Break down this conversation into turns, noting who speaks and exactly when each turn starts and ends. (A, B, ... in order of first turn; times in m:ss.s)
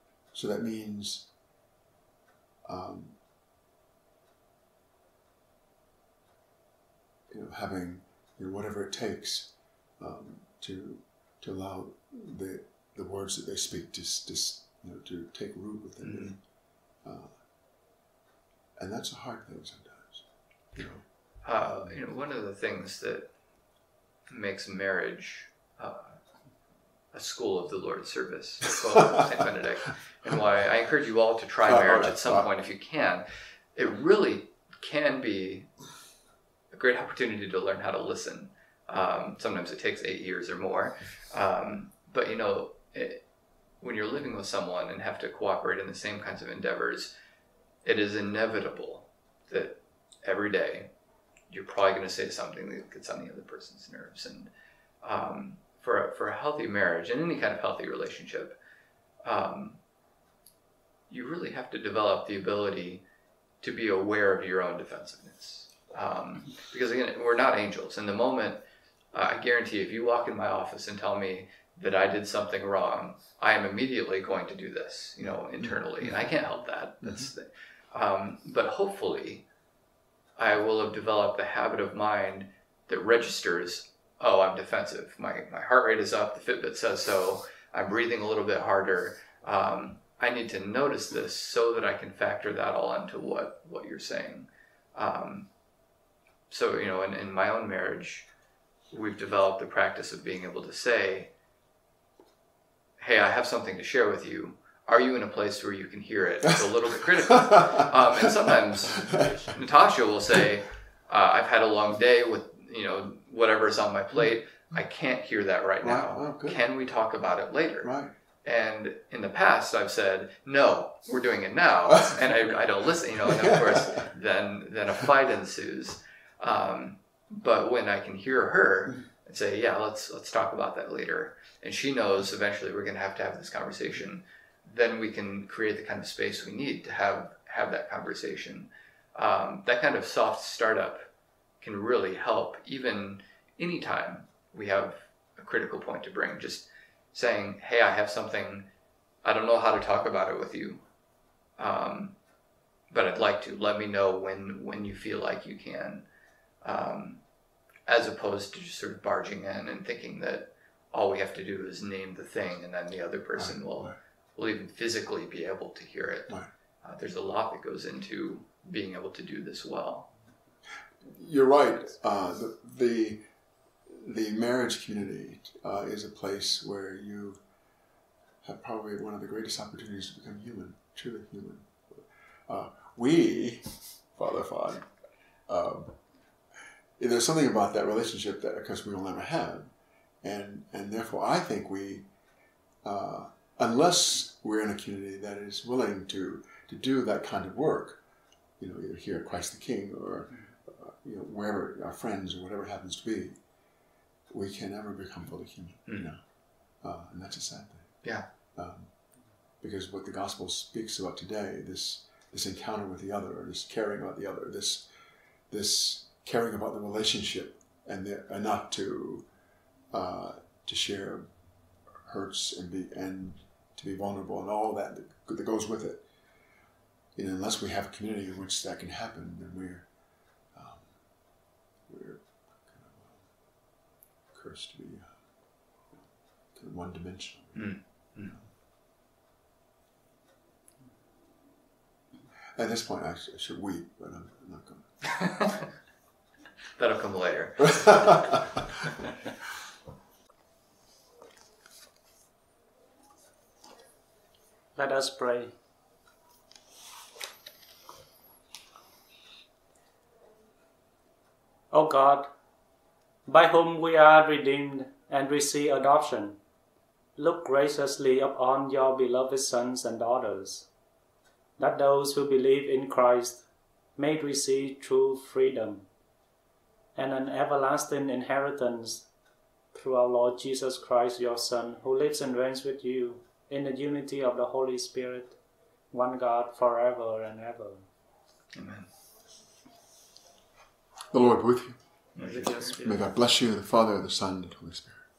0:00.3-0:01.3 A
0:02.7-0:03.2 A
0:07.3-0:16.4 A
0:16.0-0:16.4 B
0:17.0-0:17.4 A
0:18.8-0:21.0 A
0:21.4-0:23.3 B
0:21.7-0:22.0 A
0:24.3-0:26.2 B
0:27.1-0:35.7 B
0:31.6-0:32.5 A
0:36.7-0:43.2 B
0:43.8-0:47.1 B
0:47.8-0:50.9 B
0:51.5-0:54.5 B
0:55.0-0:58.6 B
0:59.2-0:59.8 B
1:01.1-1:03.0 B
1:03.6-1:19.5 B
1:20.4-1:35.5 B
1:36.5-1:38.3 B
1:38.9-1:41.3 B
1:43.0-2:21.1 B
1:47.1-1:49.6 A
1:55.8-1:56.6 A
1:57.8-1:58.1 A
2:01.9-2:02.2 A
2:03.2-2:04.1 A
2:21.6-2:28.7 B
2:29.2-2:30.8 B
2:31.6-2:32.2 B
2:32.9-2:36.0 B
2:36.6-2:37.2 B
2:37.9-2:50.1 B
2:43.4-2:44.0 A
2:51.0-2:53.2 A
2:53.9-2:57.4 A
2:58.4-3:04.9 A
3:05.5-3:06.0 A
3:07.0-3:12.1 A
3:12.8-3:18.0 A
3:18.6-3:23.4 A
3:24.3-3:26.2 A
3:26.8-3:28.0 A
3:28.6-3:28.9 A
3:29.6-3:34.9 A
3:35.5-3:39.3 A
3:39.9-3:41.3 A
3:42.0-3:46.0 A
3:47.2-3:49.9 A
3:50.5-3:50.9 A
3:51.9-3:53.3 A
3:54.3-3:55.2 A
3:55.9-3:58.5 A
3:57.6-3:58.4 B
4:02.6-4:04.9 A
4:05.1-4:05.6 B
4:06.8-4:08.5 B
4:07.6-4:08.4 A
4:14.8-4:15.5 C
4:21.7-4:22.3 C
4:23.3-4:26.4 C
4:27.2-4:30.7 C
4:31.6-4:33.5 C
4:34.0-4:35.9 C
4:37.0-4:39.1 C
4:39.7-4:45.4 C
4:45.9-4:47.9 C
4:48.6-4:48.9 B
4:51.1-4:51.8 A
4:52.2-4:52.8 B
4:52.2-4:53.1 C
4:52.7-4:55.1 A